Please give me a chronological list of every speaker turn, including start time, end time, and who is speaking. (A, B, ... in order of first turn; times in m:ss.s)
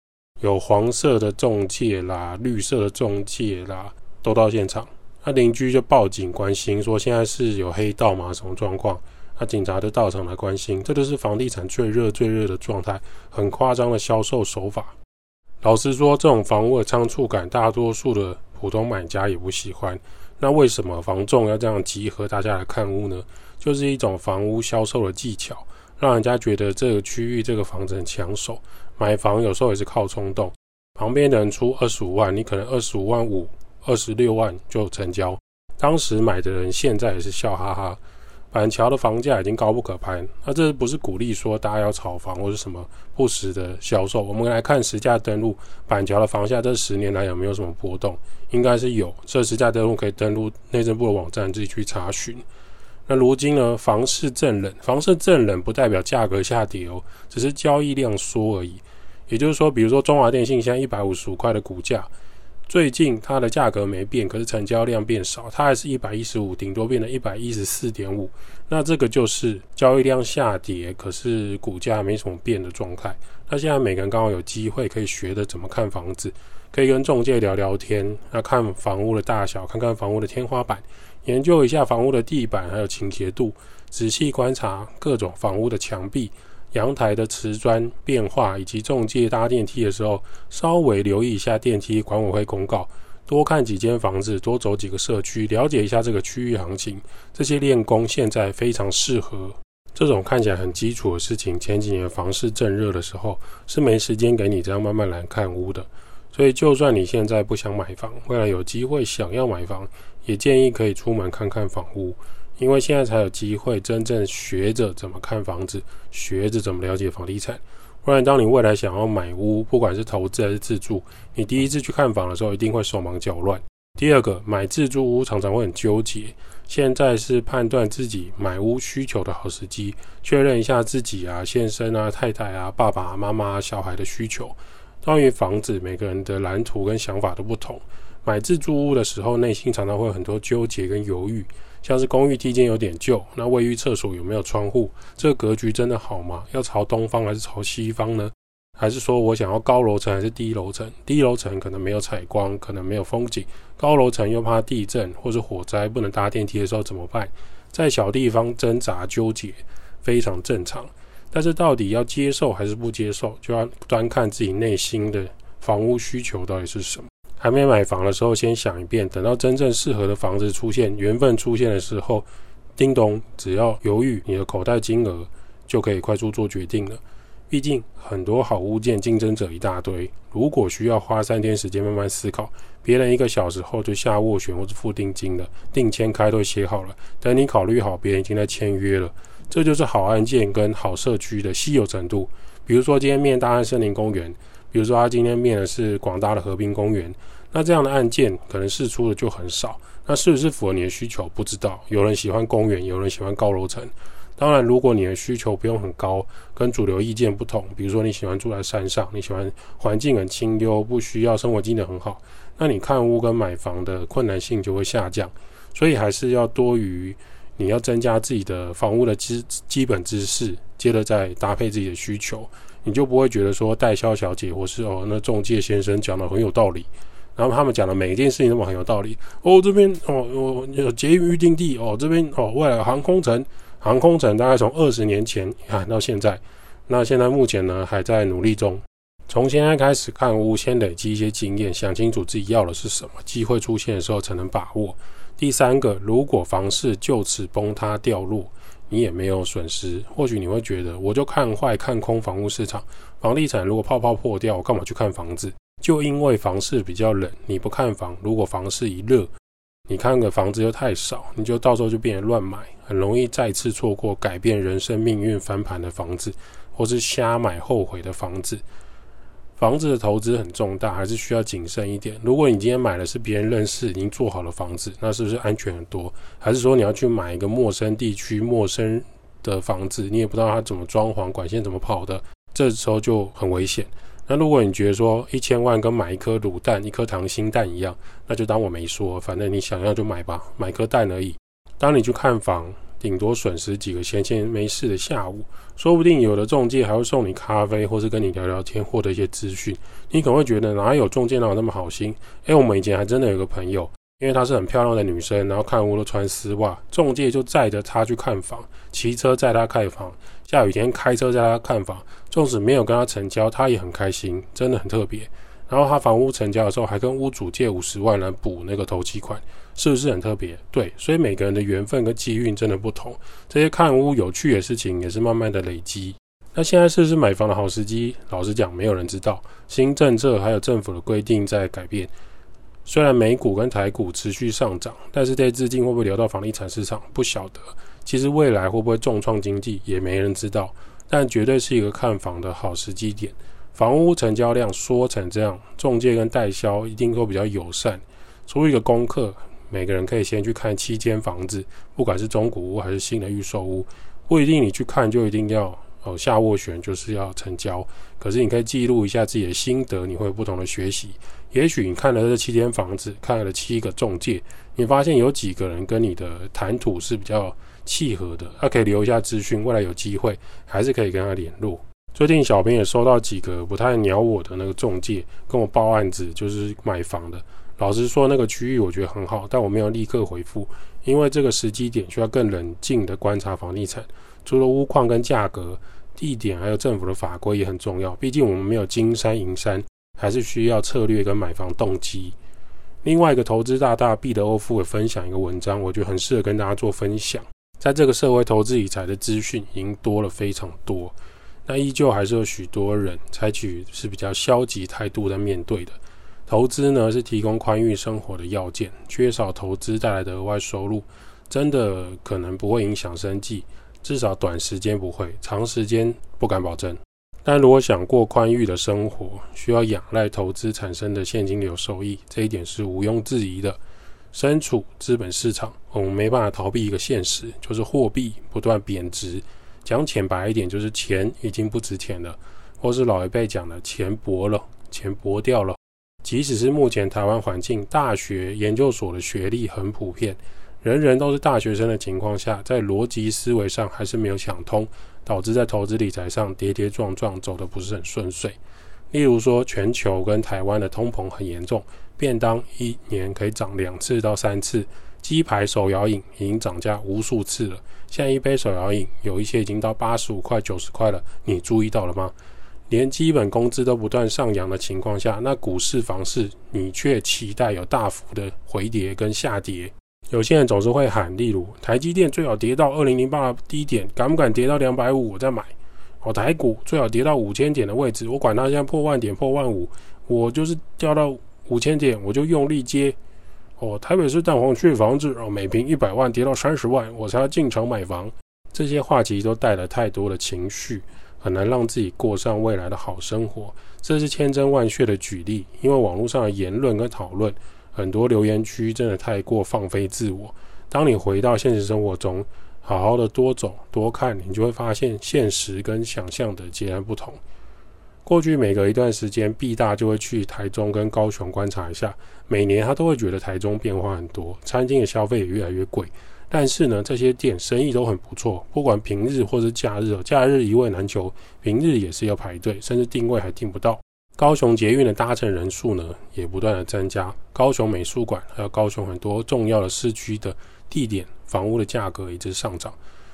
0:00.4-0:14.9 A
0:15.6-0:38.0 A
0:38.5-0:52.4 A
0:53.1-1:02.1 A
1:02.7-4:19.3 A
4:19.9-4:28.6 A
4:29.6-5:32.1 A
5:32.8-6:32.4 A
6:33.0-7:03.8 A
7:04.3-7:28.6 A
7:29.1-7:42.4 A
7:42.9-8:03.2 A
8:03.8-8:27.4 A
8:28.2-8:53.0 A